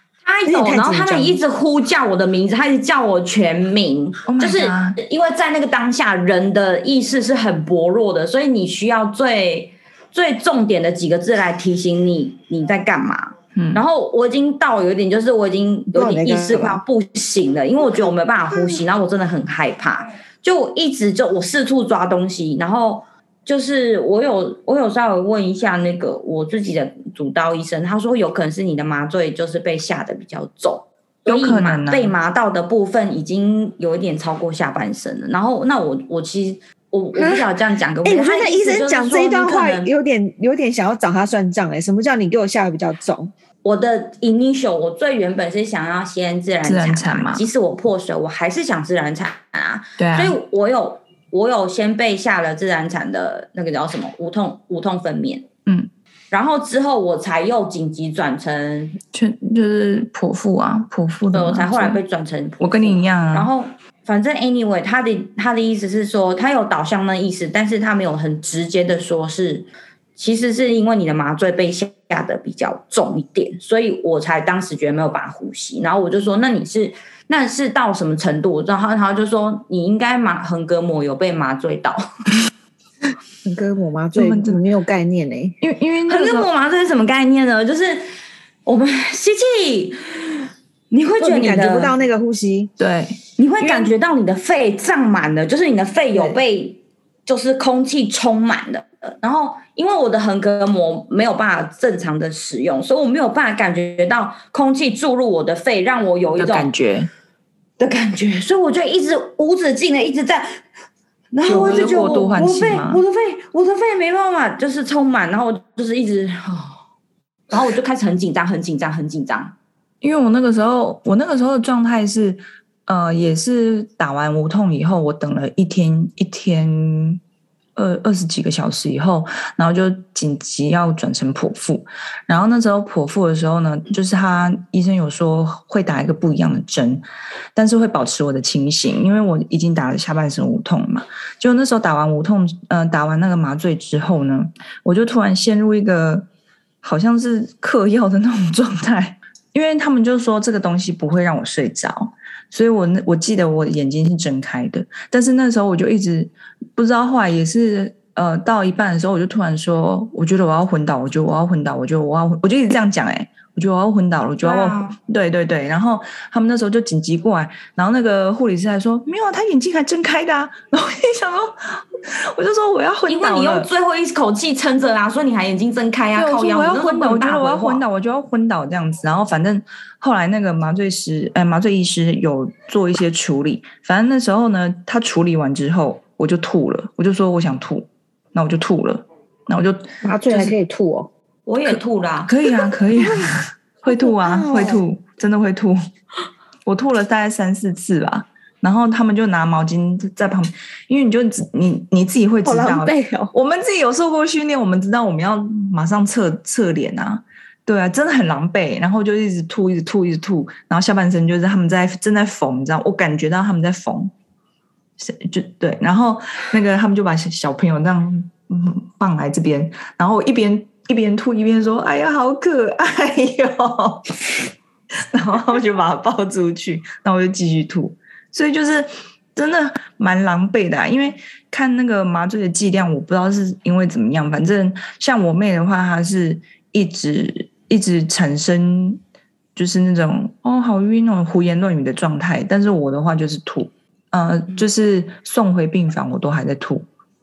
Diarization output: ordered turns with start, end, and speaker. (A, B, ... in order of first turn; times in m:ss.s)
0:00.2-0:39.9 A
0:00.4-0:01.4 B
0:04.2-0:05.0 C
0:13.5-0:13.8 C
0:15.9-0:16.8 B
0:31.2-0:32.1 C
0:37.1-0:37.5 B
0:38.0-0:43.3 B
0:43.6-0:55.5 A
0:46.6-0:47.4 C
0:50.0-0:50.4 C
0:56.3-0:59.0 A
0:59.1-1:02.0 C
1:01.3-1:22.0 A
1:02.6-1:03.5 C
1:23.4-1:25.6 B
1:24.1-1:24.6 C
1:25.6-1:26.5 C
1:26.1-1:28.1 A
1:28.6-1:31.9 A
1:31.2-1:32.7 B
1:32.8-1:33.9 C
1:33.4-1:46.7 A
1:36.1-1:36.4 B
1:46.4-1:47.1 C
1:47.8-1:50.6 A
1:51.3-1:56.8 A
1:51.4-1:53.0 C
1:57.5-1:59.5 A
2:00.0-2:07.2 C
2:07.8-2:17.0 C
2:17.5-2:26.3 C
2:26.8-2:53.7 C
2:44.4-2:45.0 A
2:53.1-2:57.8 A
2:56.2-3:10.5 C
3:10.0-3:11.1 B
3:11.4-3:12.3 A
3:11.6-3:15.8 C
3:13.1-3:13.3 B
3:13.9-3:14.8 B
3:16.6-3:34.1 C
3:22.4-3:23.3 B
3:35.0-3:44.3 C
3:45.1-3:59.0 C
3:59.6-4:06.8 C